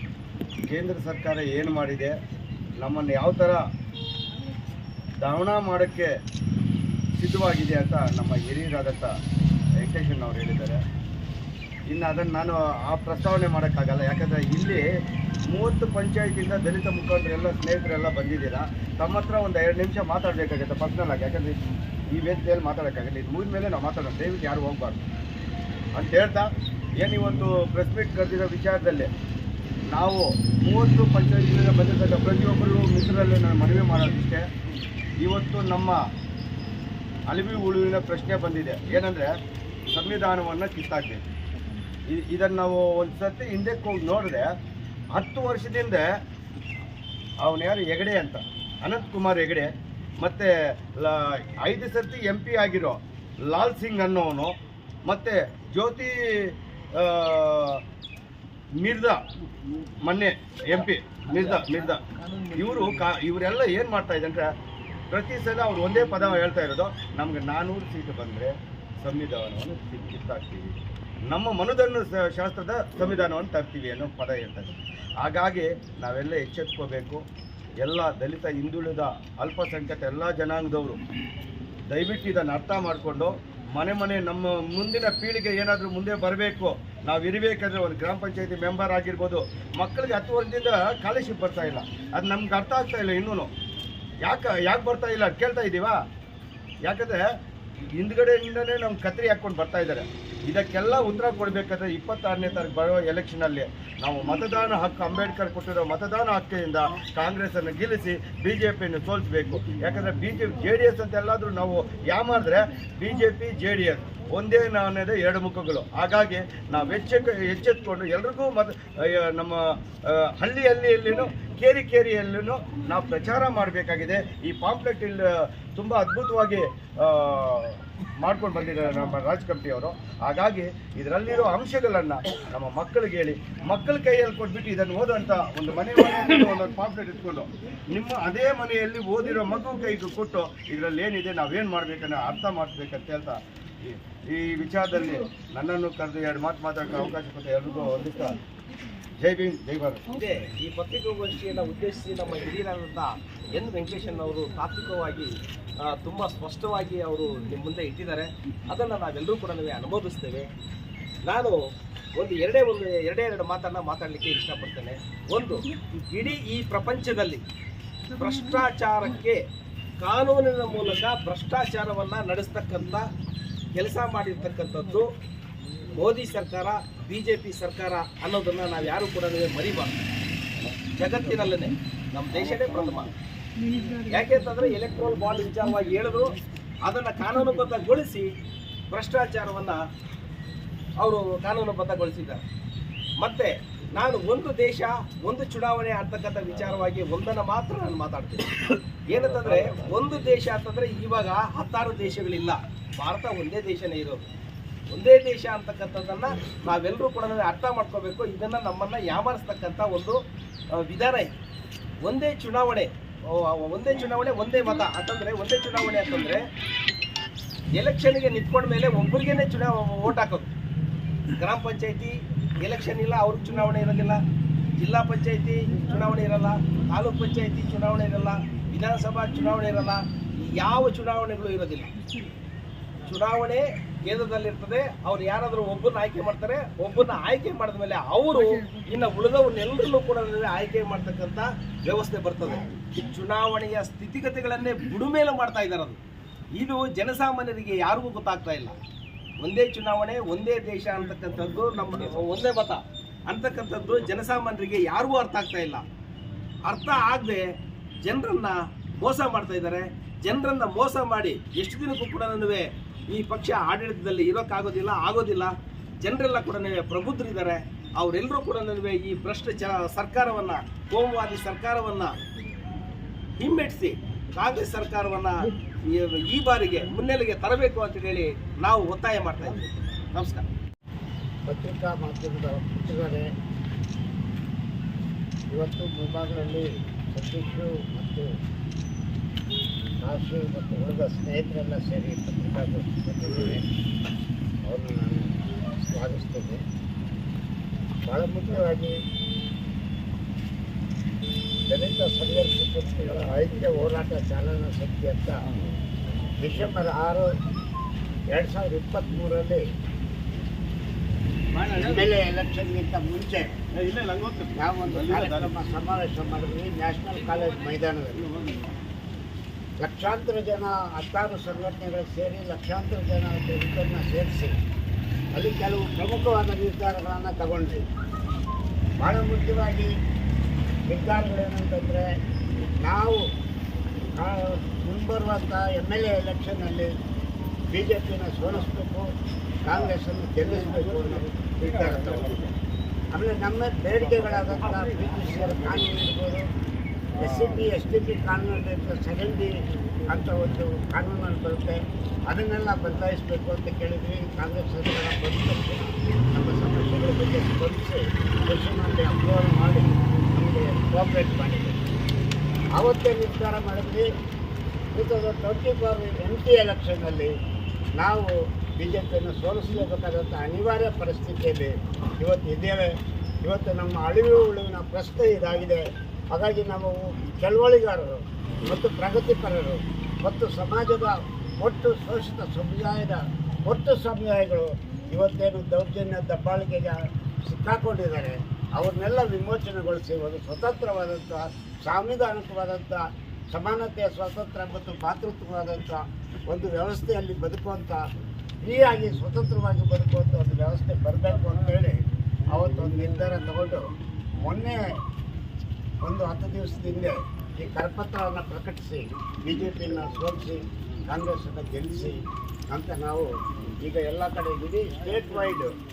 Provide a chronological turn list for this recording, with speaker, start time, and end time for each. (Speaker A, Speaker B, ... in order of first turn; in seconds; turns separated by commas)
Speaker A: 0.7-2.1, Speaker A: 2.8-3.6, Speaker A: 5.2-6.1, Speaker A: 7.2-9.1, Speaker A: 9.8-10.8, Speaker A: 11.9-14.8, Speaker A: 15.5-21.6, Speaker A: 22.1-25.1, Speaker A: 25.9-26.5, Speaker A: 27.0-29.1, Speaker A: 29.9-34.5, Speaker A: 35.2-36.0, Speaker A: 37.3-39.3, Speaker A: 39.9-41.2, Speaker A: 42.1-44.5, Speaker A: 45.1-46.0, Speaker A: 47.4-57.8, Speaker A: 58.8-59.2, Speaker A: 60.0-62.0, Speaker B: 61.3-63.0, Speaker A: 62.6-64.5, Speaker A: 65.1-77.2, Speaker A: 77.8-81.0, Speaker A: 81.9-93.5, Speaker A: 94.2-96.0, Speaker A: 96.9-97.2, Speaker A: 98.0-148.4, Speaker A: 149.2-150.1, Speaker B: 150.1-160.5, Speaker B: 161.2-161.6, Speaker B: 162.2-167.4, Speaker B: 168.1-169.4, Speaker B: 170.0-173.0, Speaker B: 173.8-175.1, Speaker B: 175.9-180.1, Speaker B: 181.0-183.1, Speaker B: 184.1-188.3, Speaker B: 188.9-189.8, Speaker B: 191.0-192.4, Speaker B: 193.2-204.2, Speaker B: 204.9-210.2, Speaker B: 210.8-211.3, Speaker B: 212.0-216.5, Speaker B: 217.8-220.5, Speaker B: 221.4-224.2, Speaker B: 224.8-231.9, Speaker B: 233.1-246.0, Speaker B: 246.6-248.8, Speaker B: 249.4-255.8, Speaker B: 256.6-257.4, Speaker B: 258.0-272.1, Speaker B: 273.4-280.4, Speaker C: 281.5-283.3, Speaker C: 285.5-288.3, Speaker C: 290.0-293.6, Speaker C: 294.6-296.6, Speaker C: 298.1-298.9, Speaker C: 301.7-305.4, Speaker C: 306.4-307.3, Speaker C: 308.3-309.6, Speaker B: 311.5-312.1, Speaker C: 311.8-313.5, Speaker B: 313.8-314.5, Speaker C: 314.6-318.3, Speaker B: 315.1-315.4, Speaker C: 319.8-324.6, Speaker C: 325.4-327.8, Speaker C: 329.0-329.9, Speaker C: 330.9-332.1, Speaker C: 332.8-333.2, Speaker C: 334.1-336.9, Speaker C: 337.7-339.1, Speaker C: 339.6-342.4, Speaker B: 340.5-342.5, Speaker C: 343.1-346.5, Speaker C: 347.2-349.5, Speaker B: 347.2-347.5, Speaker C: 350.1-361.8, Speaker C: 362.8-364.1, Speaker C: 364.9-367.3, Speaker C: 368.0-372.9, Speaker C: 373.4-398.0, Speaker C: 398.6-403.8, Speaker C: 404.4-404.8, Speaker C: 406.0-412.2, Speaker C: 412.7-415.8